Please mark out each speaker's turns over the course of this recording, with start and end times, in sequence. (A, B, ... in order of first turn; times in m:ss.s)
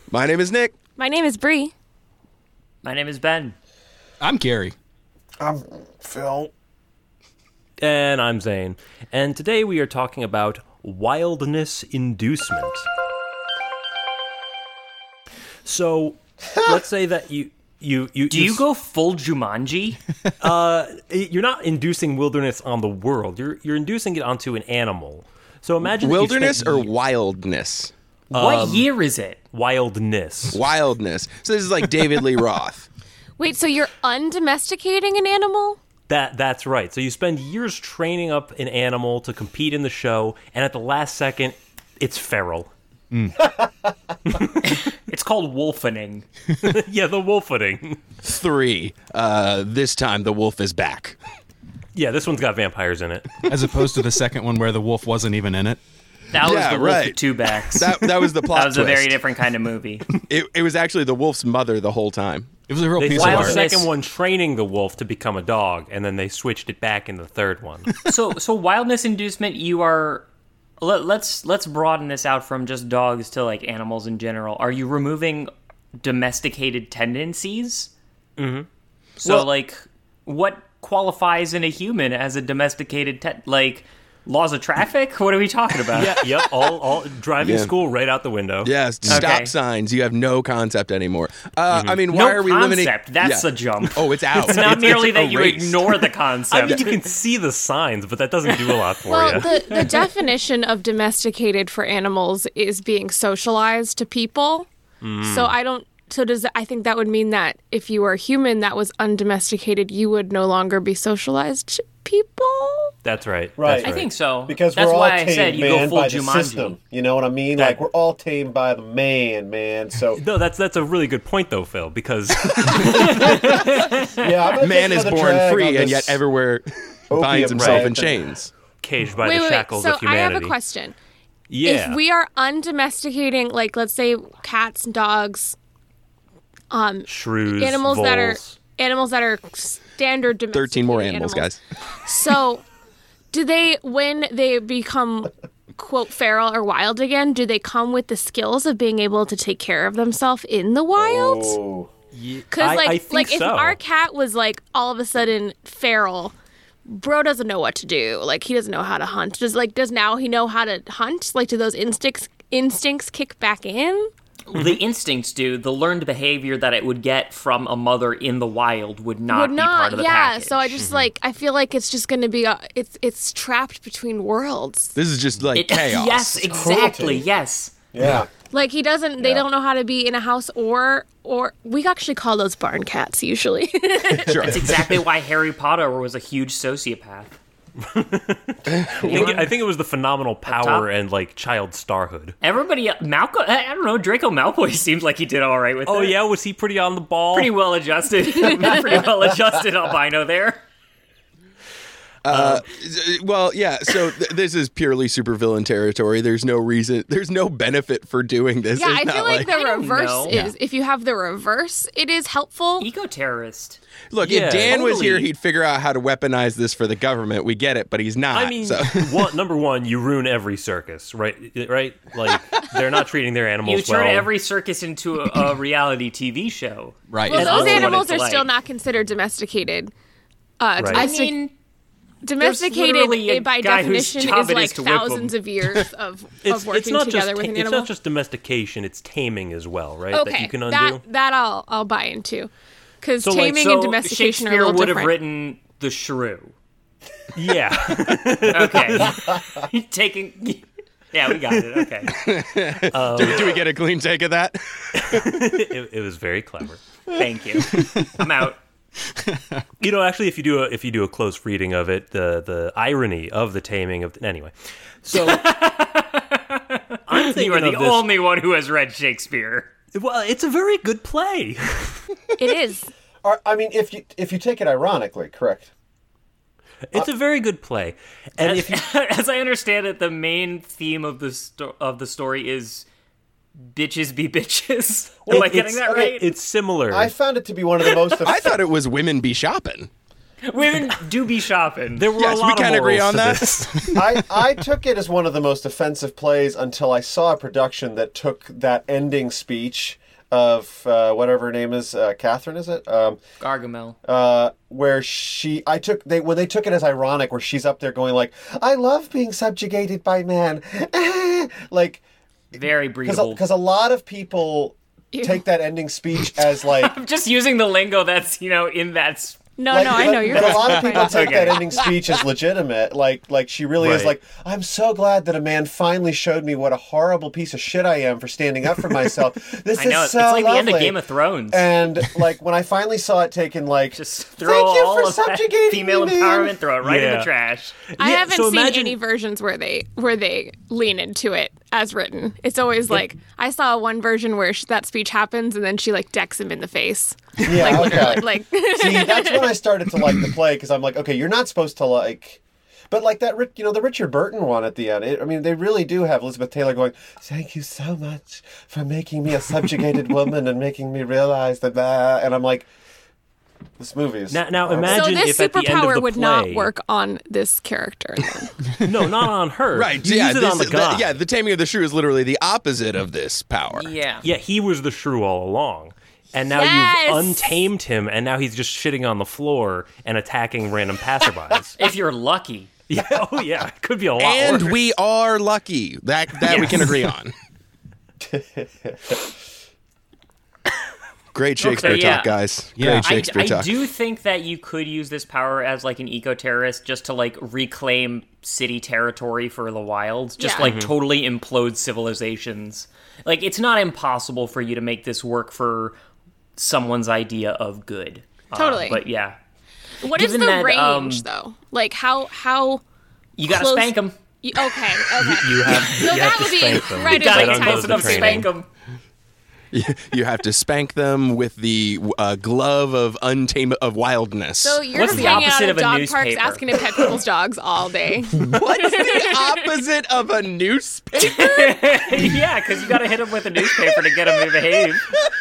0:00.1-0:00.7 A
0:01.0-0:01.7 B
0:02.8-0:03.6 C
0:04.2-0:04.8 D
0:05.4-0:06.5 E
0:07.8-0:12.8 F
0:15.6-0:18.6 F
0:18.3-0:20.0 C
0:20.4-0:26.9 F
0:26.0-0:27.9 A
0:28.3-0:28.9 F
0:28.3-0:29.4 C
0:29.5-0:30.6 F
0:30.5-0:32.9 A
0:33.4-0:35.8 B
0:36.1-0:42.7 F
0:43.4-0:43.7 E
0:44.3-0:44.6 F
0:44.6-0:46.2 C
0:46.6-0:48.0 F
0:48.2-0:51.2 A
0:51.9-0:53.4 F
0:53.4-0:55.8 D
0:56.3-1:00.1 C
0:56.4-0:59.2 A
1:00.3-1:02.5 A
1:02.7-1:03.6 D
1:03.0-1:08.0 F
1:03.2-1:03.9 C
1:08.1-1:10.3 C
1:10.8-1:17.9 C
1:18.4-1:18.7 F
1:19.2-1:26.2 C
1:25.9-1:29.2 F
1:27.4-1:27.7 A
1:28.6-1:36.1 A
1:29.1-1:29.5 C
1:31.7-1:32.0 F
1:32.1-1:37.0 C
1:36.5-1:39.9 F
1:38.5-1:38.8 C
1:39.1-1:44.7 B
1:45.0-1:45.5 F
1:45.2-1:52.9 B
1:53.0-1:54.1 F
1:53.6-2:00.2 E
1:53.8-1:56.8 C
2:00.2-2:03.4 F
2:02.8-2:04.1 C
2:03.2-2:03.6 E
2:04.1-2:06.2 E
2:04.6-2:08.5 A
2:07.1-2:08.2 E
2:07.6-2:07.9 F
2:08.8-2:10.6 F
2:09.1-2:11.0 B
2:11.5-2:12.0 F
2:11.6-2:15.6 B
2:16.7-2:21.5 B
2:17.1-2:18.5 F
2:20.5-2:21.6 A
2:22.0-2:22.6 B
2:23.3-2:31.6 B
2:30.9-2:31.9 E
2:32.1-2:33.8 F
2:32.5-2:36.3 B
2:36.9-2:44.1 B
2:44.5-2:50.8 C
2:44.5-2:44.8 F
2:49.3-2:54.9 B
2:50.8-2:51.1 F
2:55.0-2:56.5 A
2:55.6-2:57.7 C
2:56.5-2:57.3 E
2:57.9-2:58.3 E
2:58.4-3:04.4 B
2:59.2-2:59.4 E
3:04.2-3:04.9 A
3:04.4-3:04.6 E
3:04.5-3:07.4 C
3:07.8-3:12.4 F
3:09.0-3:09.6 C
3:10.4-3:10.9 C
3:12.4-3:16.2 C
3:15.8-3:17.5 F
3:17.3-3:20.6 C
3:22.2-3:29.5 A
3:22.3-3:22.6 F
3:28.8-3:32.9 B
3:29.6-3:30.4 C
3:32.8-3:33.8 C
3:34.1-3:39.3 A
3:34.2-3:34.8 F
3:34.7-3:35.3 C
3:38.3-3:44.3 F
3:43.6-3:48.5 C
3:47.1-3:48.0 D
3:47.2-3:49.9 B
3:50.6-3:51.4 B
3:50.8-3:51.1 F
3:50.9-3:51.5 C
3:52.2-3:57.9 B
3:52.4-3:55.4 C
3:56.4-4:01.0 F
4:00.1-4:05.2 B
4:03.4-4:06.5 C
4:07.3-4:09.2 F
4:08.5-4:12.2 C
4:12.1-4:15.3 A
4:12.8-4:13.7 F
4:15.0-4:16.8 F
4:17.1-4:18.6 C
4:19.8-4:25.4 F
4:25.1-4:29.7 C
4:27.1-4:28.1 F
4:30.0-4:32.0 F
4:32.4-4:32.9 B
4:33.2-4:35.7 E
4:36.9-4:38.8 F
4:38.4-4:42.9 C
4:43.6-4:46.3 C
4:45.2-4:46.2 E
4:45.3-4:47.1 F
4:46.9-4:48.7 E
4:48.2-4:49.9 A
4:50.4-4:52.1 C
4:52.0-4:53.7 F
4:52.2-4:54.0 A
4:54.0-5:03.2 E
5:03.4-5:04.0 C
5:04.0-5:12.0 E
5:12.5-5:13.4 C
5:13.0-5:16.9 E
5:15.1-5:15.5 B
5:16.3-5:19.4 C
5:19.6-5:22.0 B
5:19.7-5:31.0 E
5:20.3-5:21.6 C
5:23.8-5:24.2 F
5:29.7-5:31.8 C
5:31.5-5:36.6 E
5:33.9-5:37.8 C
5:36.8-5:37.3 F
5:38.0-5:39.0 F
5:38.0-5:50.1 B
5:47.4-6:02.7 E
6:03.8-6:05.1 E
6:04.3-6:06.7 F
6:04.8-6:08.7 B
6:08.8-6:11.2 F
6:09.7-6:13.9 A
6:13.7-6:14.3 C
6:14.2-6:21.8 F
6:16.5-6:17.6 B
6:21.8-6:22.7 C
6:22.9-6:24.8 F
6:24.2-6:27.3 A
6:26.5-6:26.8 C
6:28.2-6:29.3 E
6:31.3-6:33.8 A
6:31.6-6:32.4 C
6:32.8-6:33.2 D
6:32.9-6:46.0 C
6:40.4-6:40.8 B
6:40.6-6:40.9 F
6:46.6-6:49.4 C
6:48.6-6:49.0 B
6:50.0-6:52.8 B
6:50.1-6:51.2 C
6:53.4-6:54.2 C
6:53.4-6:58.5 B
6:55.2-6:58.5 F
6:56.9-6:58.7 C
6:59.7-7:05.5 A
7:04.6-7:09.7 B
7:04.9-7:06.7 C
7:08.3-7:12.2 A
7:11.2-7:15.1 C